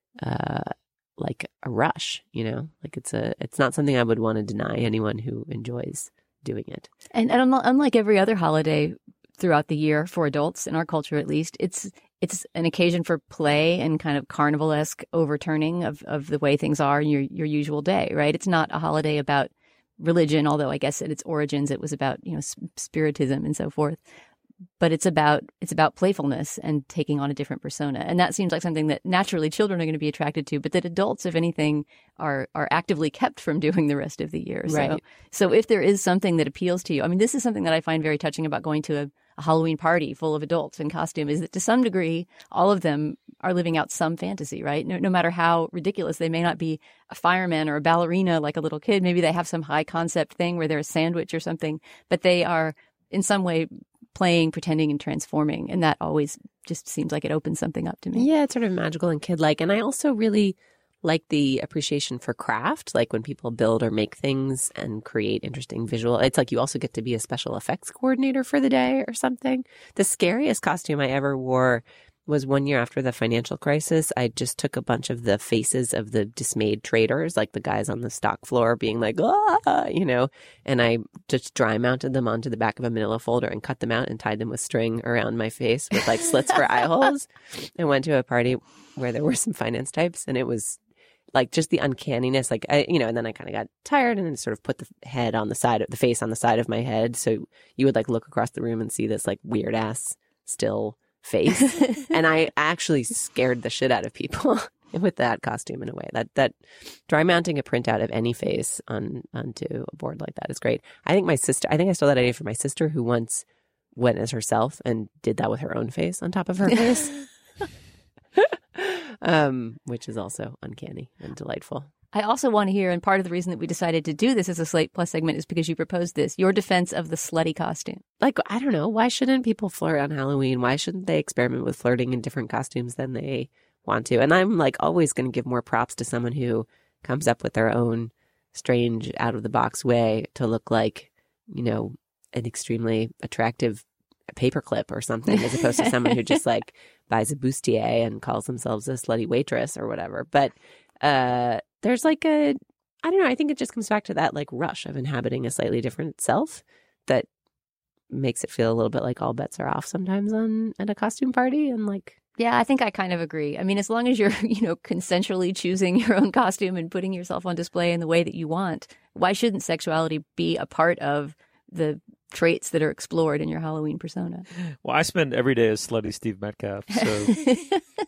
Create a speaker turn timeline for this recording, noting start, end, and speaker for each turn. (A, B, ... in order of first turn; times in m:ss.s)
0:00.2-0:06.9 A
0:07.1-0:24.0 B
0:24.8-0:58.3 B
0:34.7-0:35.0 A
0:58.1-1:30.8 A
1:31.3-1:53.4 A
1:54.0-1:57.3 A
1:58.4-2:01.9 A
2:02.1-2:08.0 B
2:08.2-2:37.3 A
2:38.1-2:42.2 A
2:42.4-2:54.5 B
2:54.8-2:57.5 C
2:57.1-2:57.8 B